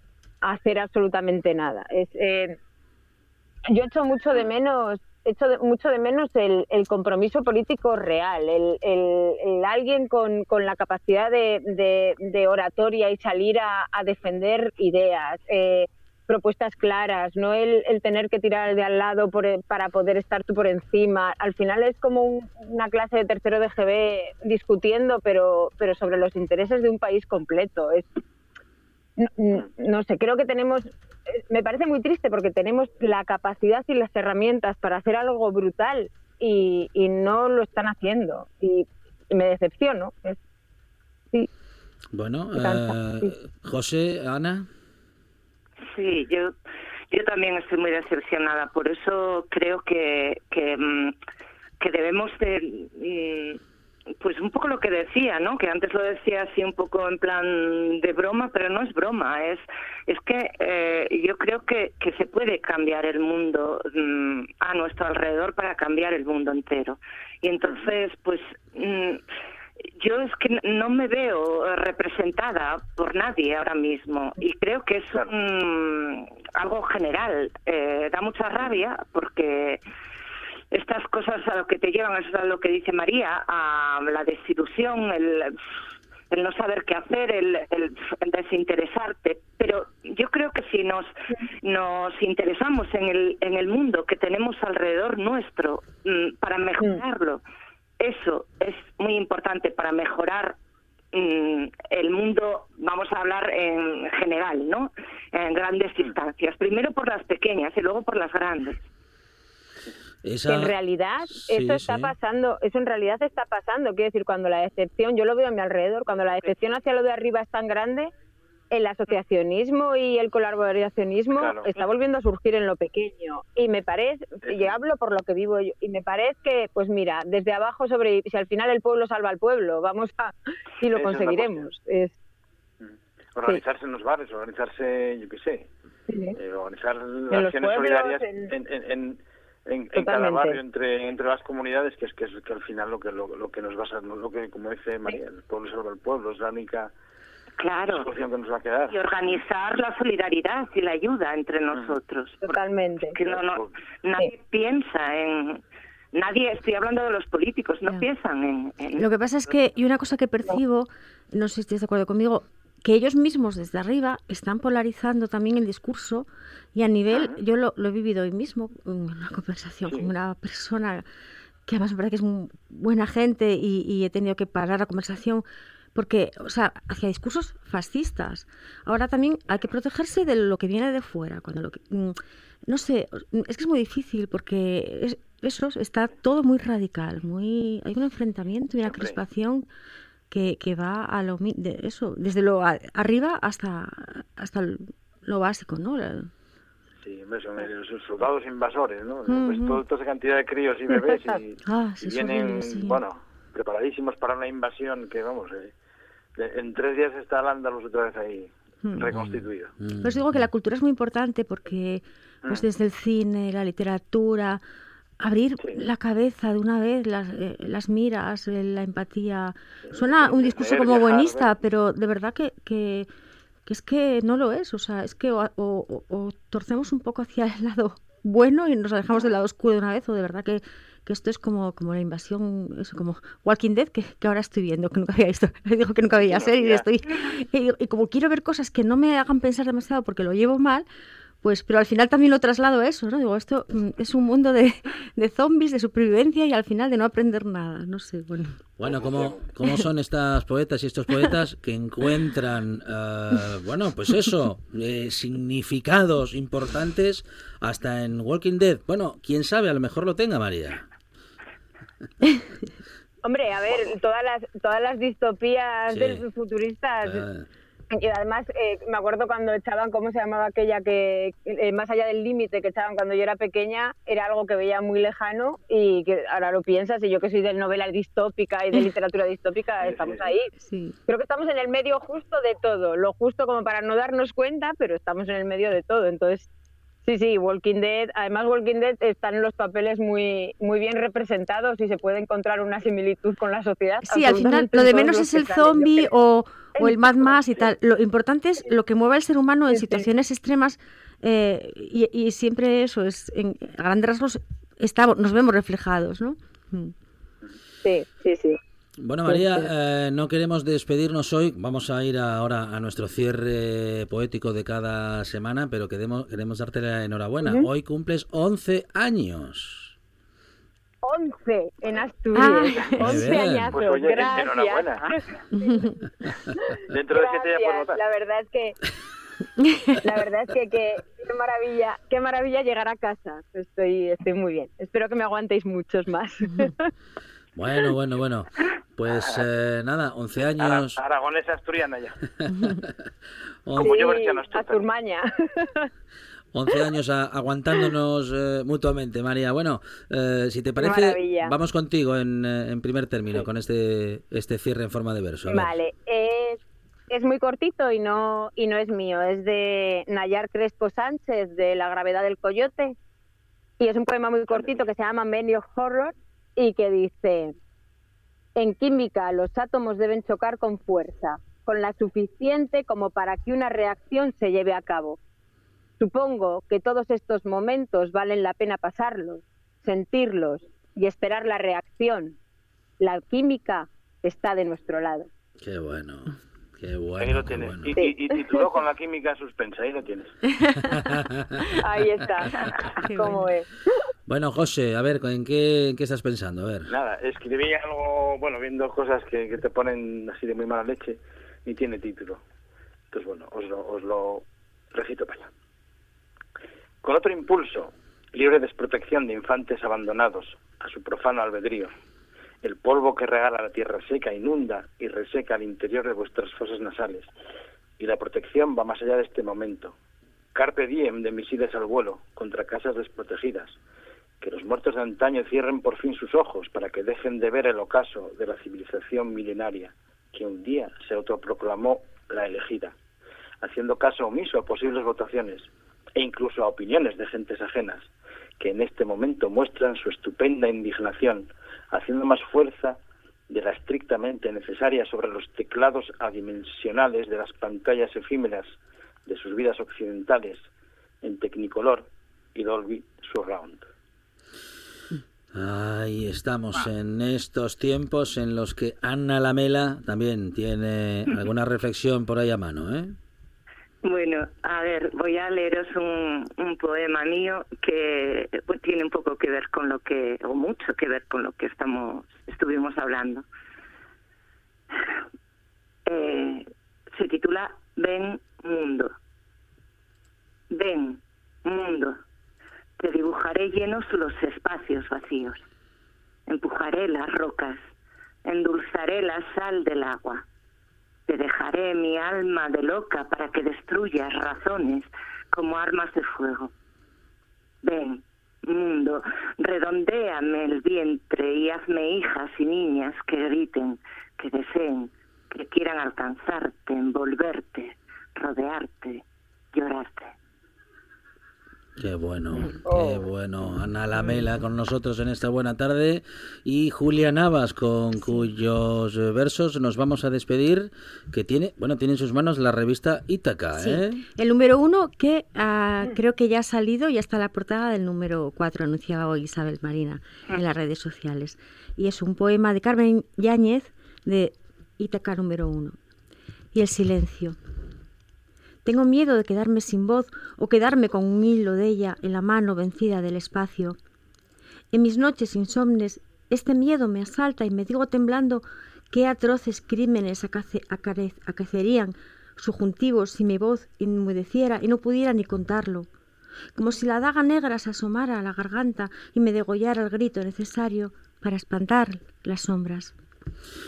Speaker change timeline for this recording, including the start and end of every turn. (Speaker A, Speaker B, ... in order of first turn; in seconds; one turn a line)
Speaker A: 0.4-2.6
Speaker A: 3.7-28.1
Speaker A: 29.2-40.4
Speaker B: 42.1-44.7
Speaker A: 42.5-43.3
Speaker C: 45.9-46.5
Speaker C: 47.1-51.1
Speaker C: 51.8-53.6
Speaker C: 54.2-69.2
Speaker C: 70.0-79.8
Speaker C: 80.7-85.5
Speaker C: 86.3-91.1
Speaker C: 91.6-97.4
Speaker C: 98.0-100.6
Speaker C: 101.1-108.8
Speaker B: 110.2-110.7
Speaker A: 110.5-118.1
Speaker B: 111.3-112.1
Speaker A: 118.7-132.1
Speaker D: 121.3-121.7
Speaker D: 124.4-124.7
Speaker D: 130.9-131.7
Speaker D: 132.8-135.7
Speaker A: 136.1-136.4
Speaker D: 136.4-146.9
Speaker A: 137.3-138.5
Speaker A: 139.9-140.6
Speaker C: 147.6-148.1
Speaker D: 147.9-148.9
Speaker C: 148.9-152.5
Speaker A: 152.4-153.2
Speaker C: 153.1-155.6
Speaker D: 153.2-153.7
Speaker C: 156.1-159.1
Speaker E: 159.0-171.1
Speaker D: 167.1-167.4
Speaker E: 171.7-189.7
Speaker D: 188.8-189.2
Speaker E: 190.3-196.3
Speaker D: 197.0-205.7
Speaker E: 199.3-199.8
Speaker A: 201.0-201.4
Speaker E: 201.6-203.0
Speaker D: 206.4-209.7
Speaker E: 208.8-209.1
Speaker B: 209.1-210.4
Speaker E: 210.0-214.6
Speaker E: 215.2-223.1
Speaker D: 219.9-221.6
Speaker E: 223.7-240.9
Speaker D: 236.1-236.9
Speaker E: 241.4-248.6
Speaker B: 248.8-260.9
Speaker D: 248.8-249.4
Speaker A: 263.2-267.3
Speaker B: 265.9-266.2
Speaker B: 267.1-267.4
Speaker A: 267.9-280.5
Speaker D: 279.8-280.3
Speaker E: 280.6-281.0
Speaker A: 281.1-286.5
Speaker A: 287.1-296.1
Speaker E: 294.1-306.9
Speaker A: 296.7-297.7
Speaker A: 299.7-300.1
Speaker A: 307.8-308.6
Speaker B: 309.0-319.9
Speaker A: 309.3-309.7
Speaker A: 317.4-317.7
Speaker A: 321.0-325.9
Speaker E: 322.4-323.0
Speaker B: 323.0-323.7
Speaker D: 323.7-325.1
Speaker A: 326.5-328.8
Speaker D: 326.9-328.0
Speaker E: 329.7-329.9
Speaker A: 330.0-336.9
Speaker B: 337.6-341.0
Speaker D: 339.1-339.4
Speaker D: 340.6-342.2
Speaker B: 342.6-342.9
Speaker B: 343.6-343.9
Speaker A: 343.7-345.9
Speaker D: 343.8-344.8
Speaker B: 346.5-355.7
Speaker A: 350.8-351.6
Speaker A: 355.5-356.6
Speaker A: 357.1-362.9
Speaker A: 363.8-367.6
Speaker D: 364.5-364.8
Speaker A: 368.6-375.2
Speaker A: 376.0-382.4
Speaker A: 383.0-385.3
Speaker B: 385.6-387.9
Speaker D: 387.2-390.3
Speaker A: 387.9-388.6
Speaker B: 390.9-391.7
Speaker A: 391.8-393.7
Speaker E: 393.0-393.4
Speaker B: 394.3-396.9
Speaker D: 396.9-402.4
Speaker D: 403.1-405.5
Speaker D: 407.0-411.9
Speaker D: 412.6-417.3
Speaker D: 418.0-419.9
Speaker D: 420.6-423.8
Speaker D: 424.4-432.9
Speaker D: 433.6-448.7
Speaker D: 449.3-450.7
Speaker D: 451.2-453.9
Speaker B: 455.5-463.2
Speaker C: 464.0-473.4
Speaker C: 476.1-479.1
Speaker C: 480.7-482.2
Speaker C: 483.0-485.6
Speaker C: 486.5-487.8
Speaker C: 488.4-490.4
Speaker C: 491.3-496.7
Speaker C: 497.8-510.3
Speaker B: 512.0-524.2
Speaker A: 512.6-513.3
Speaker E: 523.8-536.0
Speaker E: 536.7-537.6
Speaker E: 538.9-544.0
Speaker E: 544.9-556.1
Speaker E: 556.8-563.1